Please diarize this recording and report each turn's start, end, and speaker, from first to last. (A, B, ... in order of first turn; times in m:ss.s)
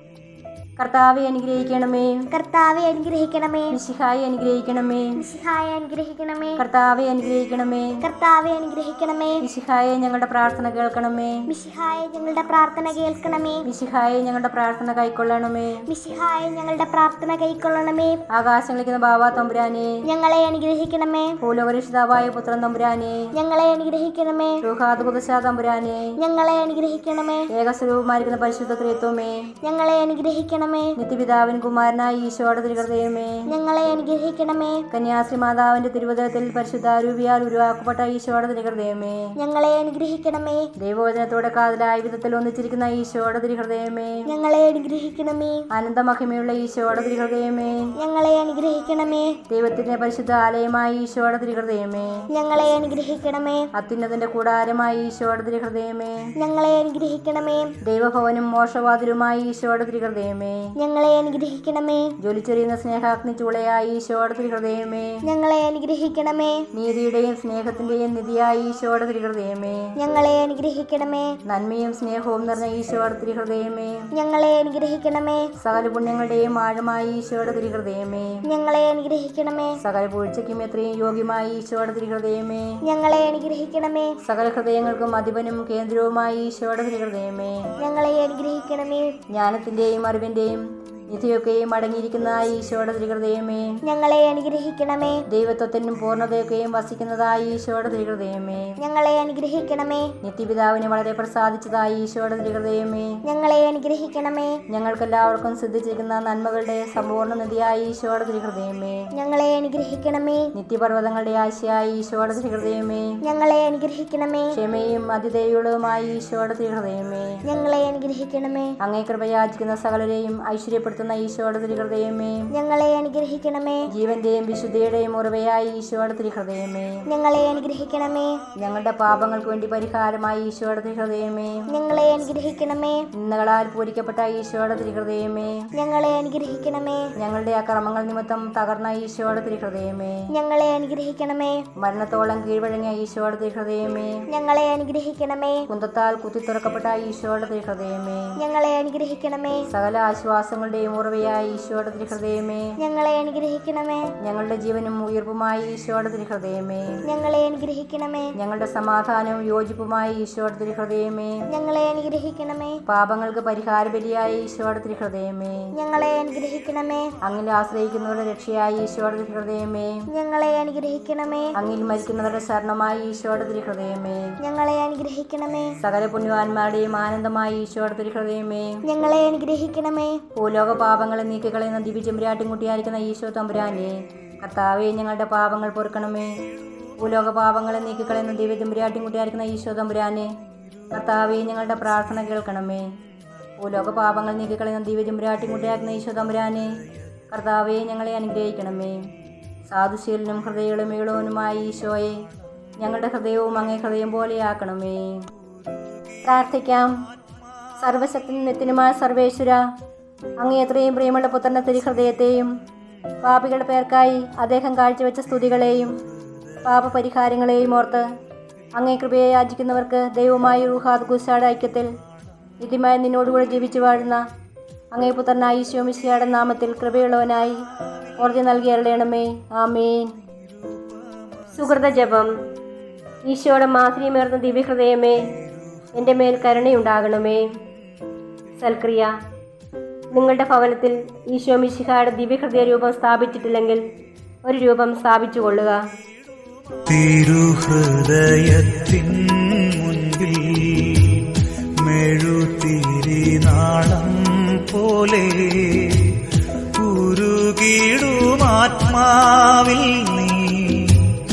0:00.8-0:02.3 A
0:02.3-0:03.8 B
0:03.7-0:05.2 A
0:05.2-0:06.6 B
0:06.6-0:08.0 A
0:08.0-0:09.4 B
0:09.4-0:11.5 A
0:11.5-0:13.6 B
0:13.6-0:15.8 A
0:15.9-0:18.2 B
0:18.3-0:20.0 A
0:20.0-0:21.3 B
0:21.4-0:23.3 A
0:23.3-0:24.6 B
0:24.6-0:26.2 A
0:26.2-0:27.5 B
0:27.5-0:29.5 A
0:29.6-0:30.9 B
0:31.0-0:33.4 A
0:33.5-0:34.8 B
0:34.9-0:39.3 A
0:39.4-0:40.6 B
0:40.8-0:44.2 A
0:44.3-0:45.6 B
0:45.7-0:47.9 A
0:48.0-0:49.3 B
0:49.5-0:52.2 A
0:52.3-0:53.6 B
0:53.7-0:56.2 A
0:56.4-0:57.7 B
0:57.8-1:00.7 A
1:00.8-1:02.1 B
1:02.2-1:05.2 A
1:05.2-1:06.6 B
1:06.7-1:09.9 A
1:10.0-1:11.3 B
1:11.4-1:14.0 A
1:14.1-1:15.5 B
1:15.6-1:18.4 A
1:18.5-1:19.7 B
1:19.8-1:22.7 A
1:22.8-1:24.1 B
1:24.2-1:27.7 A
1:27.8-1:29.1 B
1:29.3-1:33.8 A
1:33.8-1:35.2 B
1:35.3-1:38.7 A
1:38.8-1:40.1 B
1:40.2-1:43.2 A
1:43.2-1:44.5 B
1:44.7-1:49.1 A
1:49.1-1:50.5 B
1:50.5-1:53.2 A
1:53.2-1:54.5 B
1:54.5-1:57.4 A
1:57.5-1:58.7 B
1:58.8-2:02.5 A
2:02.5-2:03.8 B
2:03.9-2:07.0 A
2:07.1-2:08.4 B
2:08.6-2:11.6 A
2:11.7-2:13.0 B
2:13.1-2:15.6 A
2:15.8-2:17.1 B
2:17.2-2:20.2 A
2:20.3-2:21.6 B
2:21.8-2:24.2 A
2:24.3-2:25.6 B
2:25.7-2:28.3 A
2:28.4-2:29.6 B
2:29.7-2:32.7 A
2:32.8-2:34.1 B
2:34.2-2:37.0 A
2:37.1-2:38.3 B
2:38.4-2:41.4 A
2:41.5-2:42.8 B
2:42.8-2:45.7 A
2:45.7-2:47.1 B
2:47.2-2:50.1 A
2:50.1-2:51.5 B
2:51.6-2:54.3 A
2:54.4-2:55.7 B
2:55.8-2:58.8 A
2:58.8-3:00.2 B
3:00.3-3:06.3 A
3:07.0-3:10.3 A
3:10.9-3:12.8 A
3:13.6-3:16.7 A
3:17.3-3:19.0 A
3:19.7-3:22.2 A
3:22.8-3:25.2 A
3:26.2-3:26.9 A
3:27.8-3:29.6 A
3:30.4-3:32.5 A
3:33.2-3:35.9 A
3:36.6-3:38.0 A
3:38.8-3:41.9 A
3:42.6-3:44.2 A
3:44.9-3:47.6 A
3:48.2-3:50.1 A
3:53.3-3:55.3 A
3:56.0-3:57.5 A
3:58.6-3:59.1 A
4:00.2-4:03.8 A
4:04.5-4:05.8 A
4:06.8-4:16.2 C
4:16.7-4:21.2 C